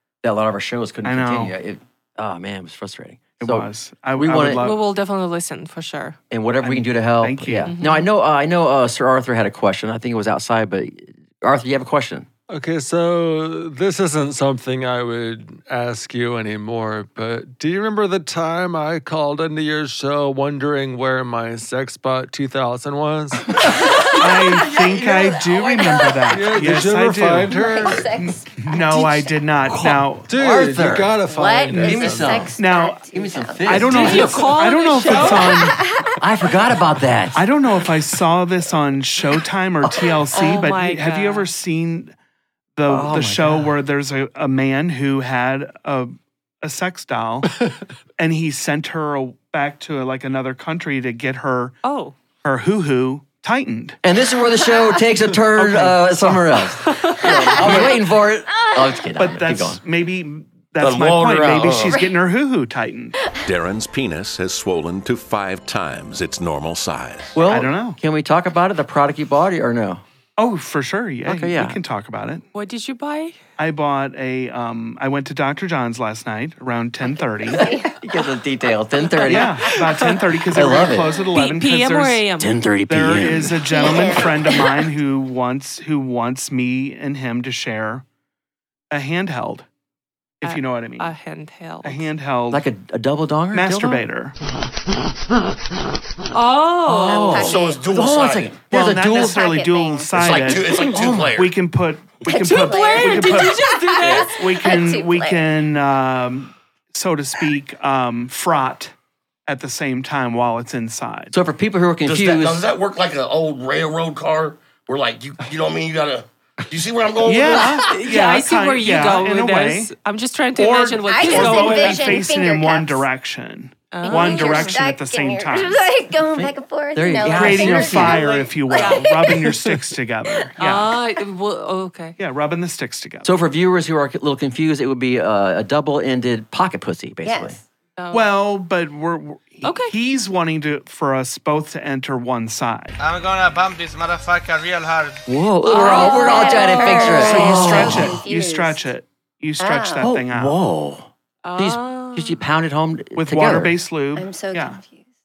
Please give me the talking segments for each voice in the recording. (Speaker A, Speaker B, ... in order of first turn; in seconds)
Speaker A: 0.2-4.6, 6.3-12.3, 25.0-25.4, 29.7-31.2, 31.7-34.5, 36.2-37.5, 39.8-40.1, 42.9-43.7, 54.0-59.8, 67.3-70.0, 71.2-71.8, 77.6-79.8, 80.5-81.2, 82.4-83.7, 92.5-94.0, 96.8-99.4, 100.8-101.4, 111.3-112.6, 126.3-128.2, 133.2-137.6, 145.3-148.2, 150.0-153.7
Speaker B: 1.0-1.5, 3.4-4.8, 6.6-7.7, 24.1-27.5, 28.1-30.3, 32.5-33.0, 33.6-35.8, 37.3-42.1, 42.8-47.5, 48.2-51.8, 52.4-54.0, 55.5-56.4, 57.3-57.9, 59.2-63.2, 67.5-68.0, 70.4-72.4, 73.6-77.6, 79.2-82.2, 82.9-88.0, 88.9-89.7, 90.4-91.1, 91.8-92.6, 93.5-94.3, 98.7-103.6, 104.1-108.9, 109.5-111.3, 117.2-119.9, 120.5-125.8, 127.2-130.9, 132.2-133.3, 138.1-143.0, 147.0-150.6, 153.1-154.8
Speaker C: 4.6-6.2, 7.6-8.1, 33.8-35.8, 40.3-41.5, 51.8-52.1, 56.8-57.5, 72.5-73.4, 81.3-82.6, 90.4-92.1, 96.3-97.5, 102.2-104.6, 117.7-122.3, 123.9-124.8, 128.7-129.1, 130.6-132.2, 138.0-138.3, 139.6-139.9, 145.6-147.9, 151.4-152.4
Speaker D: 12.5-24.2, 26.3-28.1, 30.3-32.5
Speaker E: 27.5-28.5, 31.2-33.8, 35.5-36.1, 57.2-57.8, 77.5-77.9, 83.7-84.7, 97.0-97.8, 98.9-100.9, 102.3-105.4, 121.0-123.0, 124.0-129.7, 137.2-137.6, 145.7-148.9, 149.6-150.0, 154.2-155.0
Speaker F: 60.8-62.0, 97.4-98.5, 100.1-101.5, 112.0-117.8
Speaker G: 63.4-67.3
Speaker H: 143.0-145.2